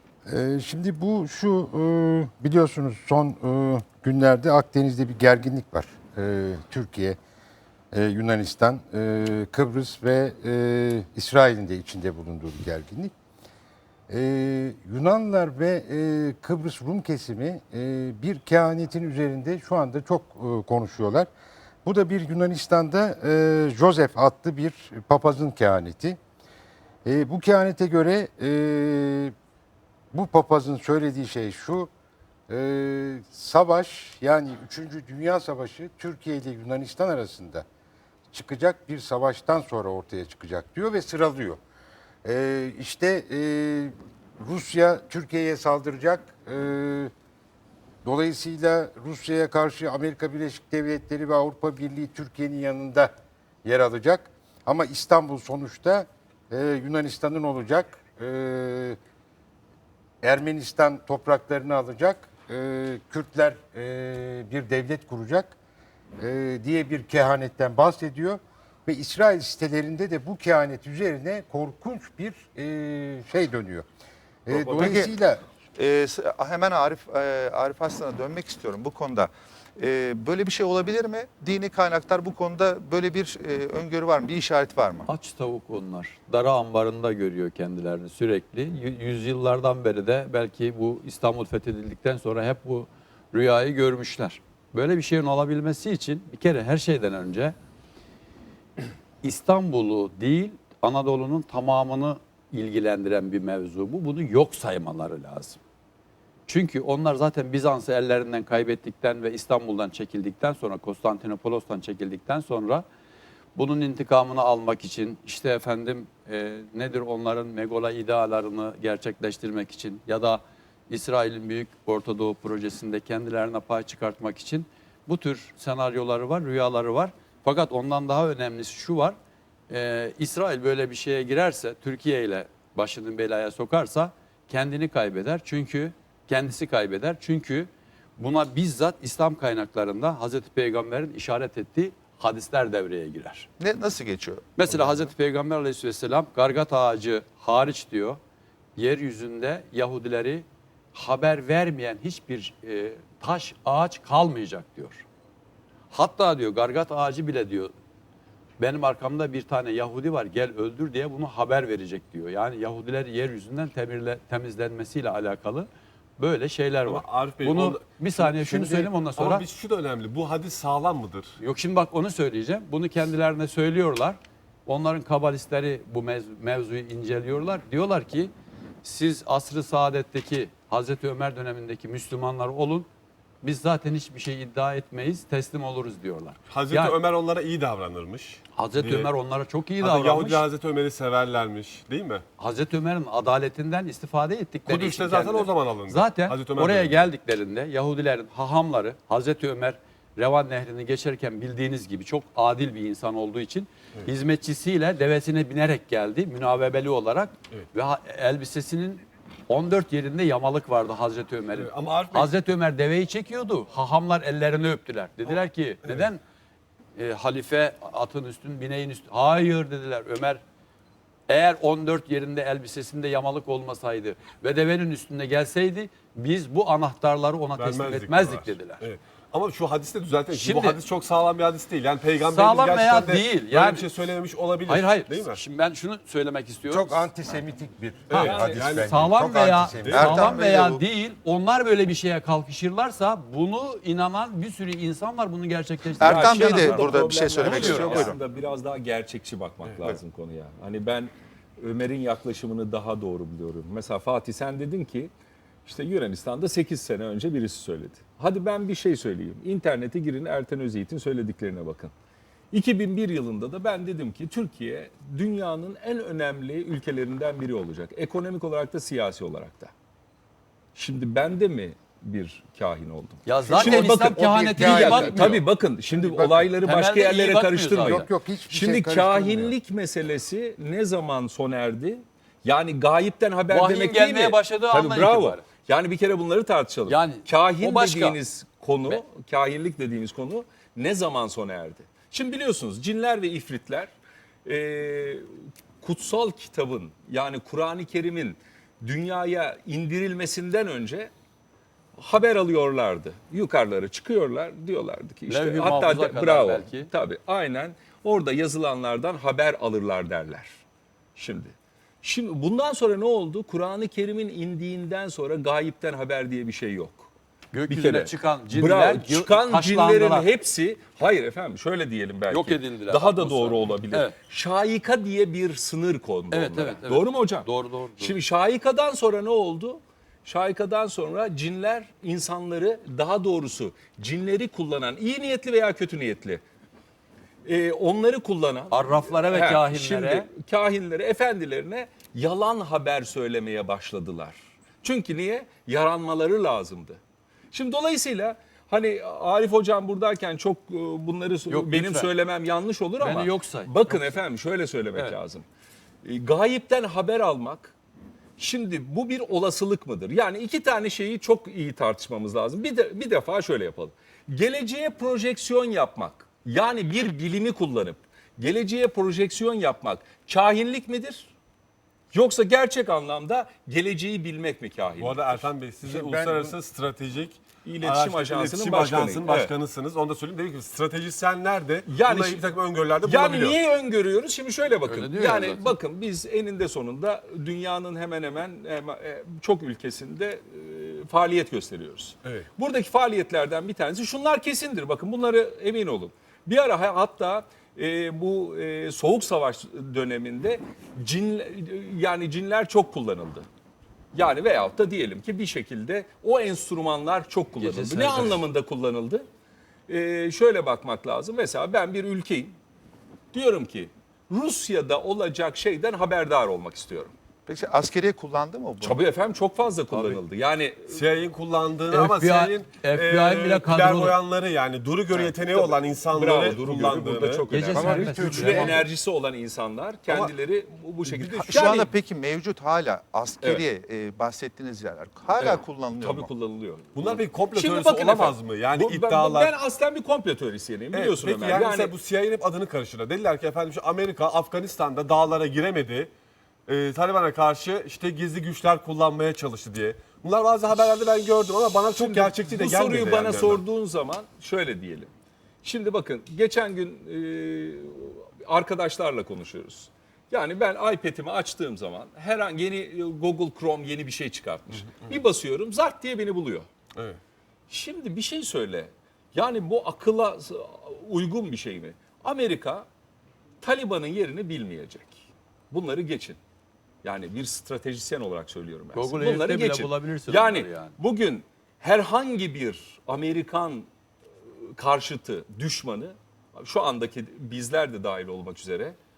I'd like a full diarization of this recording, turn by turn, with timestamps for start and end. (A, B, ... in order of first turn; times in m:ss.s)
0:00.3-0:07.2 A
0:07.9-0:13.1 A
0:14.1-0:21.3 A
0:21.8-0:26.2 A
0:27.0-0:29.4 A
0:30.1-0:31.9 A
0:32.5-0:37.7 A
0:38.3-0:41.6 A
0:42.2-0:47.1 A
0:48.0-0:53.1 A
0:53.6-0:59.0 A
1:00.2-1:05.6 A
1:06.2-1:13.9 A
1:14.5-1:15.4 A
1:14.5-1:15.1 B
1:15.8-1:25.1 B
1:25.1-1:37.6 C
1:39.2-1:45.6 C
1:46.5-1:52.8 C
1:53.6-2:09.2 C
2:09.7-2:23.5 C
2:23.6-2:24.5 B
2:24.6-2:28.2 C
2:28.8-2:35.0 C
2:35.9-2:37.7 C
2:38.6-2:49.4 C
2:46.9-2:51.3 D
2:51.4-2:58.3 C
2:58.8-3:02.9 C
3:03.4-3:07.0 C
3:06.5-3:09.1 D
3:08.6-3:10.4 C
3:09.8-3:12.2 D
3:12.4-3:36.2 C
3:14.7-3:17.0 D
3:31.6-3:32.3 D
3:37.0-3:40.4 C
3:41.3-3:48.8 C
3:47.6-3:55.4 D
3:50.3-3:50.8 C
3:52.3-3:53.9 C
3:54.7-3:57.1 C
3:56.7-4:00.4 A
3:58.1-3:59.0 D
3:58.1-3:58.9 E
3:58.8-4:08.1 C
3:59.9-4:00.8 B
4:06.0-4:08.2 B
4:06.0-4:15.1 E
4:09.7-4:10.0 D
4:15.6-4:21.9 E
4:22.5-4:29.7 E
4:30.8-4:53.9 E
4:33.3-4:35.4 C
4:33.4-4:36.5 A
4:36.6-4:38.1 C
4:37.8-4:39.5 A
4:43.5-4:45.4 C
4:46.9-4:48.2 C
4:54.4-5:01.1 E
5:02.0-5:10.6 E
5:05.3-5:06.9 C
5:11.2-5:17.1 E
5:17.5-5:20.3 C
5:17.7-5:27.5 E
5:22.3-5:24.1 C
5:26.3-5:28.2 C
5:28.0-5:36.4 E
5:37.4-5:47.0 E
5:38.7-5:40.3 C
5:47.5-5:55.4 E
5:51.5-5:52.1 C
5:53.0-5:54.2 C
5:56.0-5:57.8 E
5:58.4-6:11.3 E
6:12.1-6:15.5 E
6:15.0-6:23.6 D
6:15.8-6:16.6 A
6:17.6-6:19.5 E
6:21.9-6:22.5 E
6:23.0-6:43.5 E
6:24.9-6:25.7 C
6:44.1-6:49.3 E
6:47.6-6:48.4 C
6:49.9-6:52.6 E
6:53.3-6:57.2 E
6:57.5-6:59.0 B
6:58.8-7:01.0 E
6:59.9-7:00.2 D
7:00.9-7:07.5 D
7:01.9-7:04.2 C
7:05.1-7:11.9 E
7:07.5-7:08.8 C
7:07.7-7:08.9 A
7:11.1-7:11.5 D
7:11.3-7:16.3 B
7:15.4-7:21.9 E
7:17.0-7:19.5 D
7:20.9-7:26.1 D
7:26.7-7:33.6 D
7:32.0-7:35.1 E
7:35.6-7:46.7 E
7:47.7-7:52.9 E
7:53.6-7:56.4 E
7:57.0-8:03.9 E
7:59.0-8:01.0 C
8:04.5-8:09.0 E